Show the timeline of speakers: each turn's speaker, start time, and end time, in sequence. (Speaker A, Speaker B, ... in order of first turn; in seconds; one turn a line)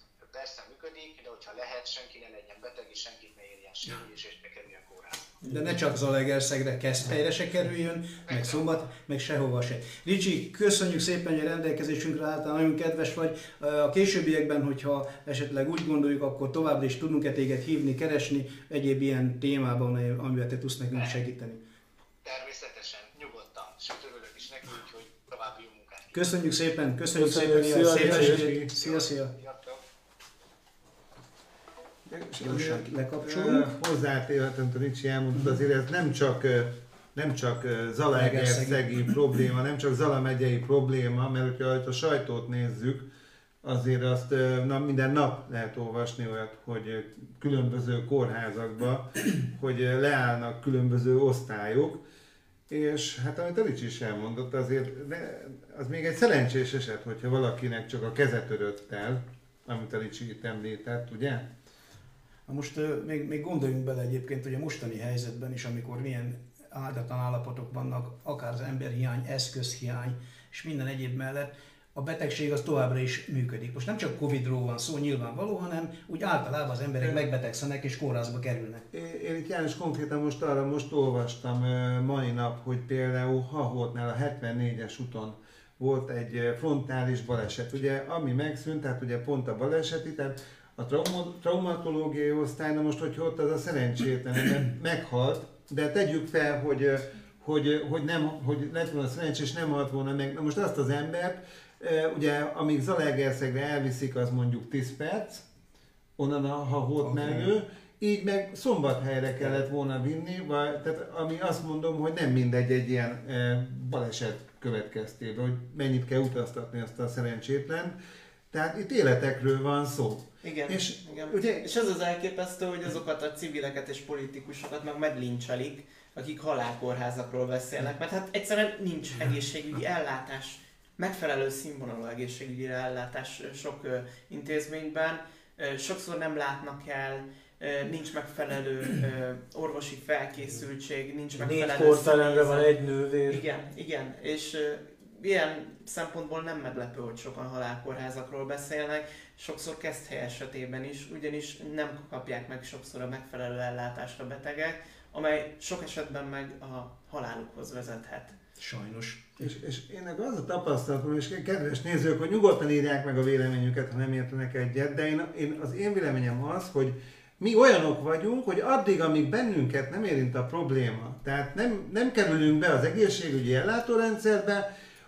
Speaker A: 0.3-5.4
Speaker B: 5.4-21.6
Speaker A: 8.3-8.9
Speaker A: 22.2-26.3
Speaker B: 26.1-29.3
Speaker C: 27.1-28.5
Speaker A: 28.0-29.8
Speaker D: 28.2-28.7
Speaker D: 32.1-43.1
Speaker B: 32.4-33.7
Speaker B: 38.1-38.9
Speaker D: 43.6-52.0
Speaker D: 52.7-61.5
Speaker B: 62.5-78.9
Speaker D: 78.9-105.4
Speaker D: 106.2-118.0
Speaker B: 107.0-107.5
Speaker D: 118.5-121.7
Speaker E: 120.4-142.7
Speaker C: 141.3-143.4
Speaker E: 143.3-158.4
Speaker B: 158.6-159.4
Speaker D: 159.4-174.7